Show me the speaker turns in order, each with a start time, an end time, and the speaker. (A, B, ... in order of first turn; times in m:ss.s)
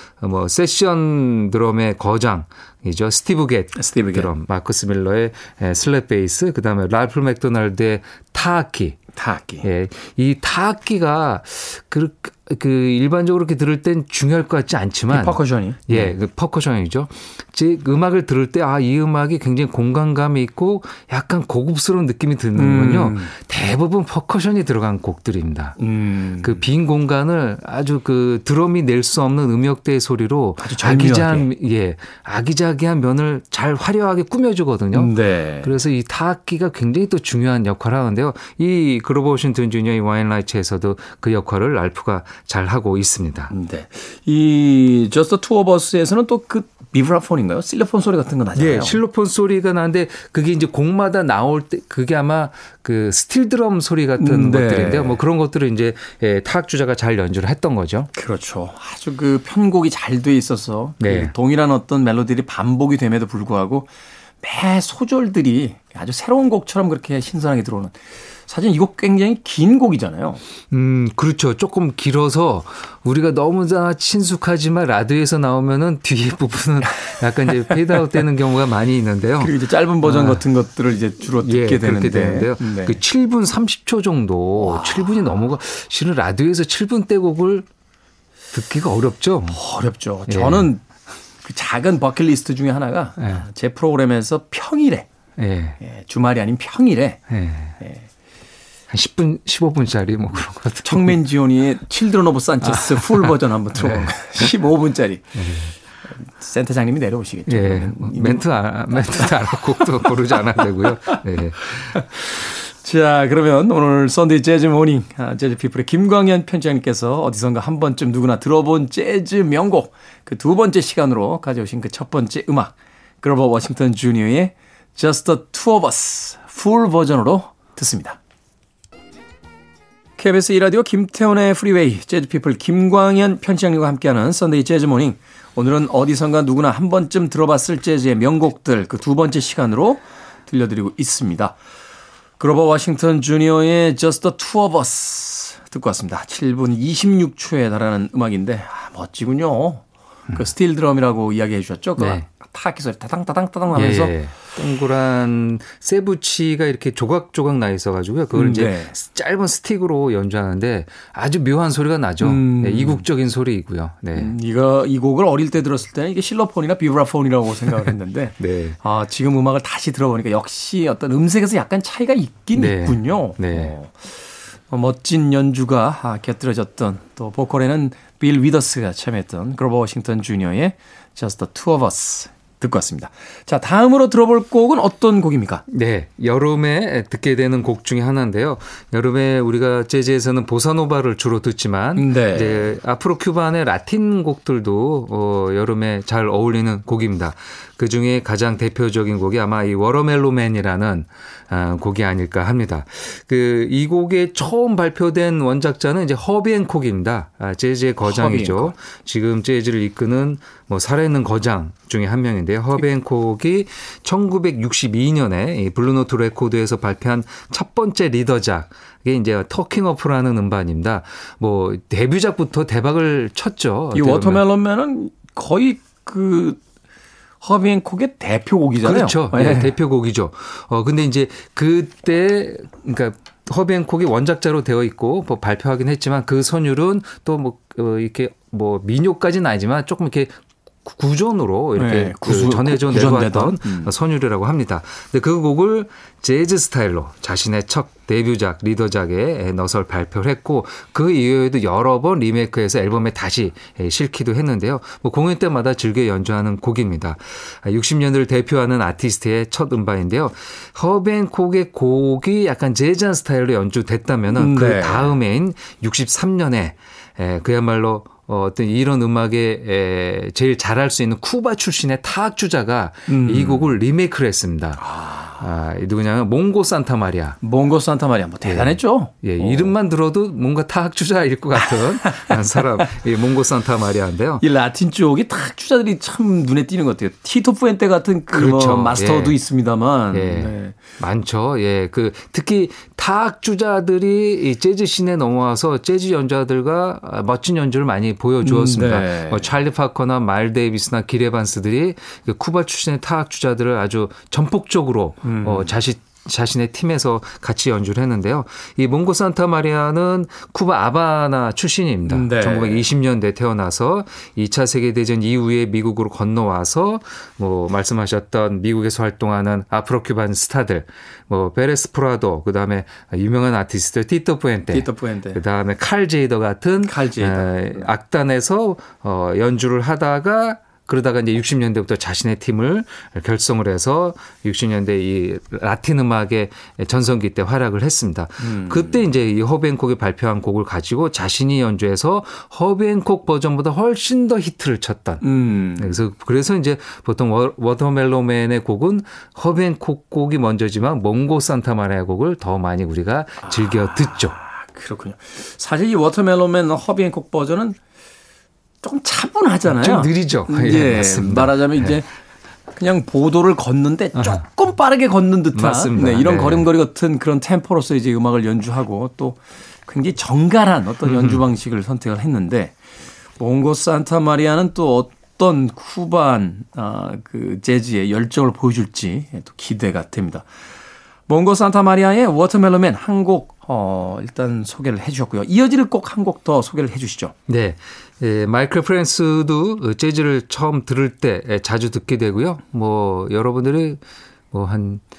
0:00.2-0:09.0 A
0:03.8-0:04.3 B
0:09.1-0:09.7 B
0:09.6-0:25.8 A
0:15.1-0:16.1 B
0:22.6-0:23.3 B
0:25.8-0:26.6 B
0:26.4-0:43.5 A
0:30.6-0:31.5 B
0:34.9-0:35.7 B
0:43.5-0:49.0 B
0:48.6-0:58.1 A
0:54.2-0:55.2 B
0:58.1-1:10.4 B
1:01.0-1:01.3 A
1:10.7-1:20.4 A
1:19.4-1:23.0 B
1:21.4-1:27.7 A
1:24.6-1:25.3 B
1:28.5-1:29.6 A
1:29.5-1:30.8 B
1:30.3-1:30.7 A
1:31.4-1:35.1 B
1:35.4-1:35.8 A
1:35.8-1:37.2 B
1:37.3-1:37.8 A
1:37.8-1:38.1 B
1:38.9-1:41.2 A
1:40.8-1:45.5 B
1:42.6-1:44.5 A
1:45.4-1:45.7 A
1:46.1-2:08.2 B
1:47.5-1:52.2 A
2:10.2-2:21.6 B
2:22.4-2:34.2 B
2:32.0-2:32.3 A
2:33.7-2:44.3 A
2:38.3-2:38.9 B
2:42.2-2:43.0 B
2:44.2-3:05.6 B
2:47.9-2:48.8 A
2:52.6-2:53.8 A
3:05.7-3:44.4 A
3:12.0-3:12.7 B
3:28.1-3:28.7 B
3:43.9-3:46.6 B
3:47.4-3:49.7 B
3:48.8-4:37.4 A
4:01.8-4:03.9 B
4:24.3-4:25.1 B
4:33.1-4:33.7 B
4:34.8-4:35.4 B
4:37.4-4:39.7 B
4:38.4-4:44.4 A
4:41.8-4:42.9 B
4:44.4-4:50.8 B
4:48.3-4:49.4 A
4:50.1-5:45.3 A
4:58.4-4:59.5 B
5:05.2-5:05.8 B
5:12.1-5:12.9 B
5:24.7-5:25.4 B
5:26.8-5:27.5 B
5:38.4-5:39.1 B
5:45.2-5:46.0 B
5:45.8-5:54.4 A
5:53.8-5:57.8 B
5:58.8-6:02.1 B
5:59.7-6:01.9 A
6:02.7-6:12.7 B
6:04.2-6:04.4 A
6:05.5-6:06.7 A
6:11.0-6:11.4 A
6:13.4-6:20.5 B
6:21.3-6:27.3 B
6:27.5-6:34.0 A
6:34.5-6:35.0 A